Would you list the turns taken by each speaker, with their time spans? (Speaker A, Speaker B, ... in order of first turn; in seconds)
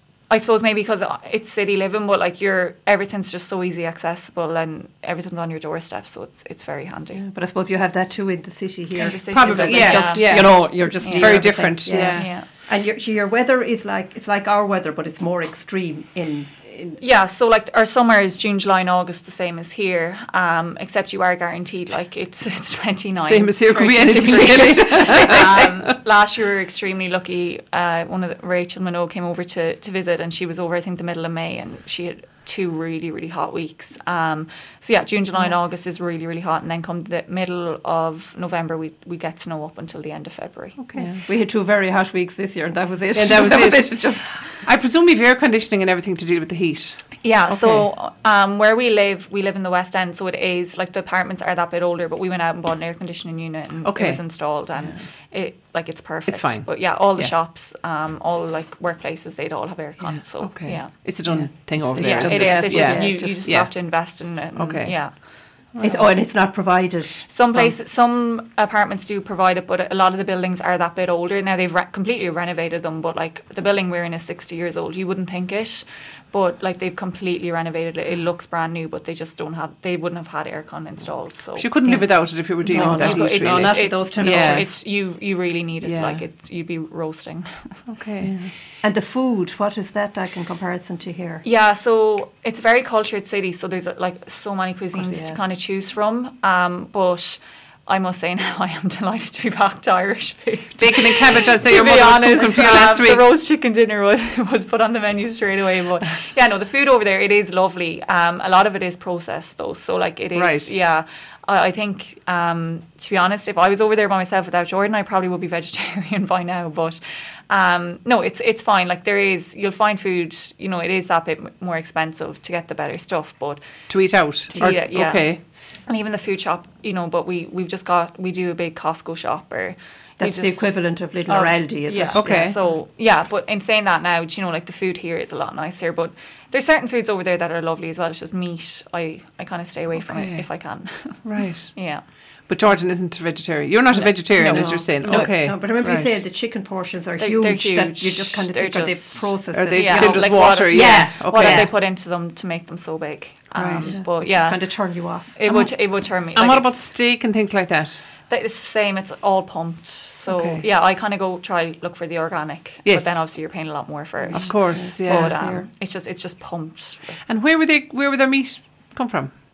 Speaker A: 0.3-7.2, 9.0-12.4, 17.0-40.8, 47.2-65.2, 65.7-66.0, 67.3-82.1, 82.7-87.8, 91.4-123.6, 124.5-125.3, 125.9-130.7, 131.3-142.0, 143.9-145.3, 147.2-154.6, 155.3-156.9, 158.3-167.2
Speaker B: 7.1-17.0, 40.9-44.3, 61.8-63.4, 65.8-67.3, 82.6-84.7, 88.2-91.4, 94.9-95.4, 130.2-132.6, 144.3-151.7, 153.8-155.3, 164.2-165.7
Speaker C: 9.3-12.3, 23.2-26.0, 40.8-41.1, 43.1-47.9, 53.8-54.2, 56.3-57.3, 60.0-65.0, 81.6-84.7, 85.8-86.2, 87.9-88.3, 100.8-103.2, 110.3-110.8, 123.9-125.4, 132.1-132.6, 140.0-140.4, 141.2-141.7, 142.4-146.1, 149.5-151.7, 153.5-153.9, 155.4-158.0, 160.3-160.6, 162.8-163.2, 164.3-165.4, 167.3-169.3